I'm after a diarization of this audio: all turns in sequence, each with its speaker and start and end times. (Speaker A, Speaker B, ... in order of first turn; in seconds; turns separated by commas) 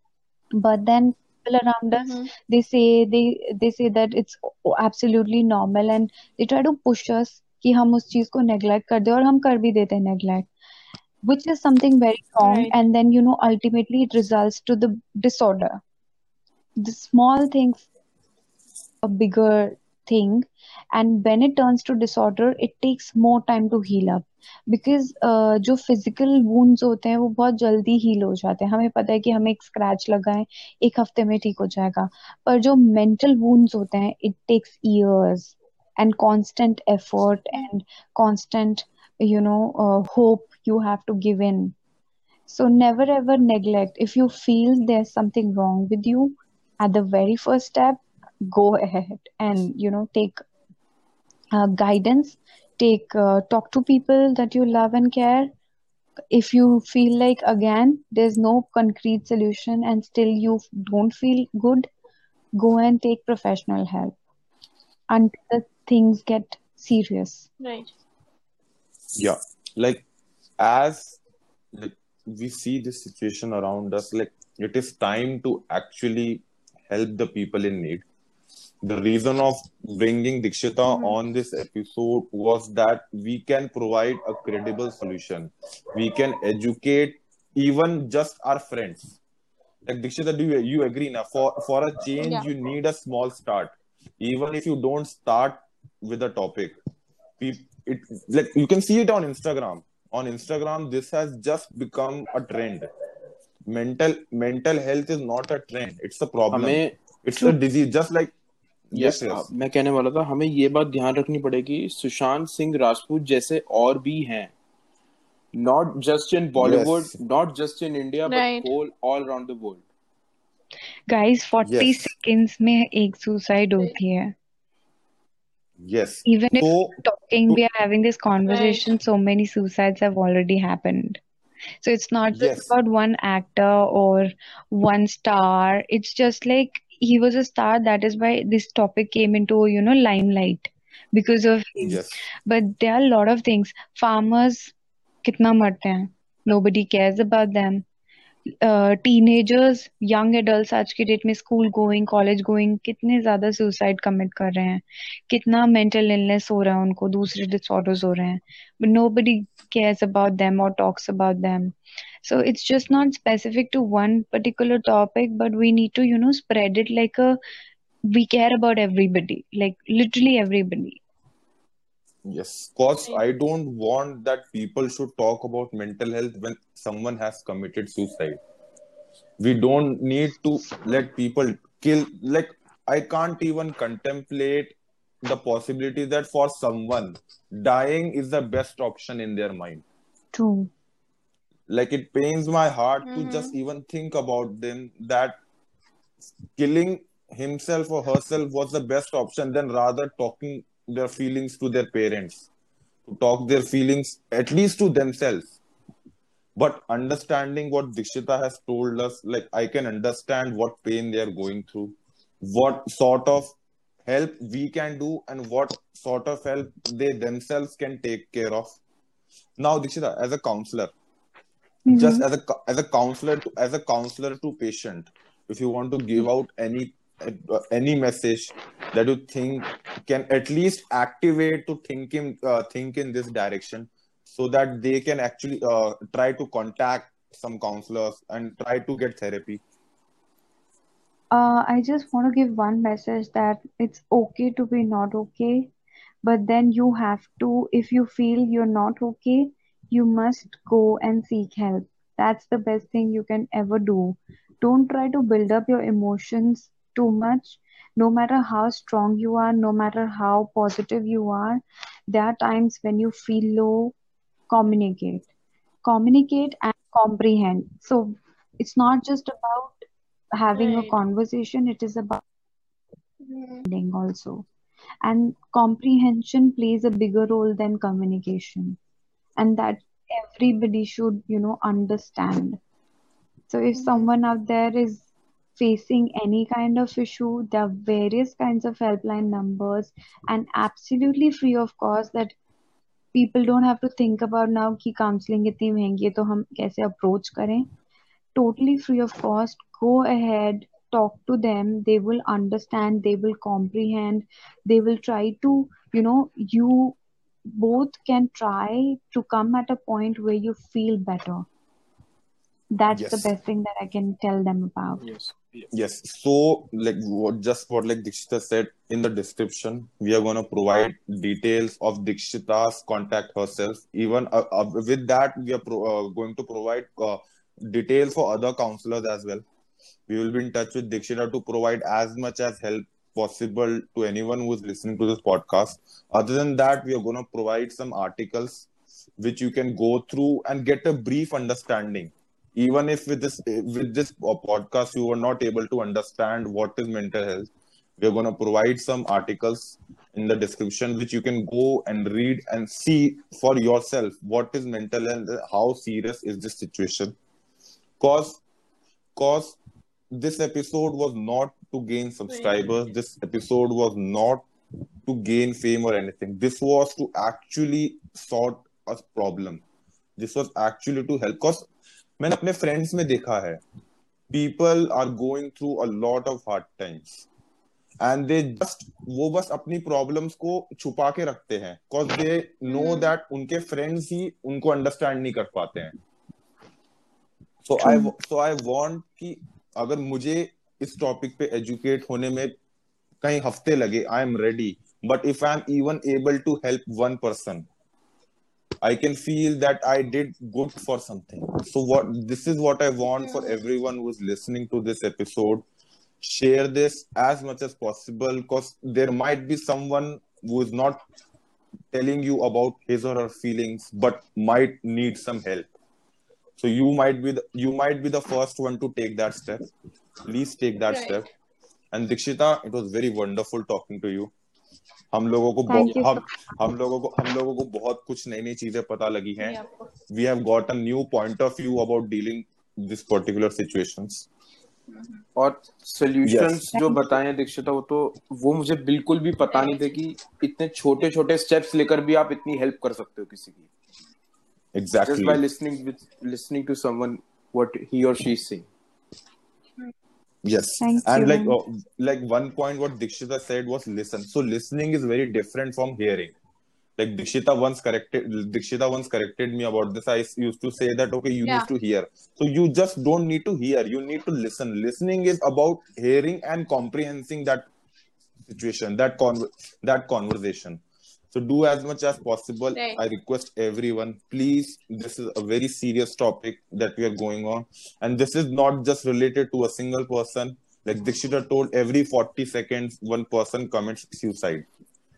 Speaker A: 0.5-10.5, Speaker B: 2.0-2.3, Speaker A: 11.2-15.8, Speaker B: 12.4-12.7, Speaker A: 16.8-17.9, Speaker A: 19.0-41.7, Speaker A: 42.5-50.4, Speaker A: 51.5-55.5, Speaker A: 56.3-61.9, Speaker A: 62.6-64.1, Speaker A: 65.1-67.5, Speaker B: 67.6-67.9, Speaker C: 69.2-70.0, Speaker C: 70.6-71.2, Speaker C: 71.7-78.0, Speaker C: 78.8-89.1, Speaker C: 89.8-96.8, Speaker B: 92.2-92.5, Speaker C: 97.4-102.9, Speaker C: 103.7-108.3, Speaker D: 106.5-106.9, Speaker C: 108.9-109.5, Speaker D: 108.9-114.5, Speaker D: 115.5-119.8, Speaker C: 116.6-117.1, Speaker B: 118.2-118.7, Speaker A: 121.1-124.3, Speaker C: 121.6-122.1, Speaker C: 125.8-127.6, Speaker A: 126.2-131.2, Speaker B: 128.5-128.8, Speaker A: 131.8-147.8, Speaker C: 132.3-132.7, Speaker C: 141.8-142.2, Speaker A: 148.6-167.4, Speaker A: 168.1-171.0, Speaker C: 172.2-178.4, Speaker C: 179.4-189.8, Speaker A: 190.3-190.7, Speaker C: 191.7-195.4, Speaker B: 193.0-193.5, Speaker C: 196.6-202.4, Speaker C: 203.1-205.5, Speaker C: 206.6-213.5, Speaker C: 214.1-218.8, Speaker C: 219.6-220.9, Speaker A: 221.8-222.2, Speaker C: 221.9-239.6, Speaker A: 241.3-245.7, Speaker A: 246.2-263.9, Speaker A: 264.5-265.3, Speaker A: 265.8-269.8, Speaker A: 270.4-272.2, Speaker B: 270.5-270.9, Speaker B: 273.2-273.6, Speaker A: 273.6-274.4, Speaker A: 275.0-278.8, Speaker A: 279.4-282.6, Speaker A: 283.5-292.3, Speaker B: 283.7-284.1, Speaker A: 293.1-297.6, Speaker A: 298.3-306.9, Speaker A: 307.5-311.5, Speaker A: 312.7-315.0, Speaker C: 312.9-313.3, Speaker D: 315.0-315.7, Speaker C: 315.7-329.4, Speaker C: 330.1-338.7, Speaker C: 339.2-357.1, Speaker C: 358.0-358.4, Speaker C: 359.1-359.6, Speaker C: 360.1-364.4, Speaker B: 362.3-362.7, Speaker C: 365.1-369.6, Speaker C: 370.2-371.7, Speaker C: 372.2-373.6, Speaker C: 374.3-377.2, Speaker C: 378.0-385.9, Speaker B: 382.7-383.1, Speaker C: 387.6-392.6, Speaker A: 387.8-388.1, Speaker C: 393.2-397.7, Speaker C: 398.8-405.6, Speaker B: 403.1-403.6, Speaker C: 406.2-411.0, Speaker C: 411.9-415.7, Speaker C: 416.6-419.7, Speaker C: 420.2-421.3, Speaker B: 420.9-421.2, Speaker C: 421.9-424.3, Speaker C: 425.1-429.6, Speaker A: 425.7-426.2, Speaker B: 429.4-429.9, Speaker C: 430.1-434.3, Speaker B: 434.9-435.2, Speaker D: 435.4-443.7, Speaker C: 436.2-436.7, Speaker A: 436.7-437.0, Speaker B: 439.5-440.0, Speaker C: 444.7-445.4, Speaker D: 445.1-448.7, Speaker C: 450.4-456.3, Speaker A: 450.8-451.6, Speaker C: 457.0-467.7, Speaker C: 468.5-470.8, Speaker C: 471.3-484.7, Speaker B: 472.7-473.0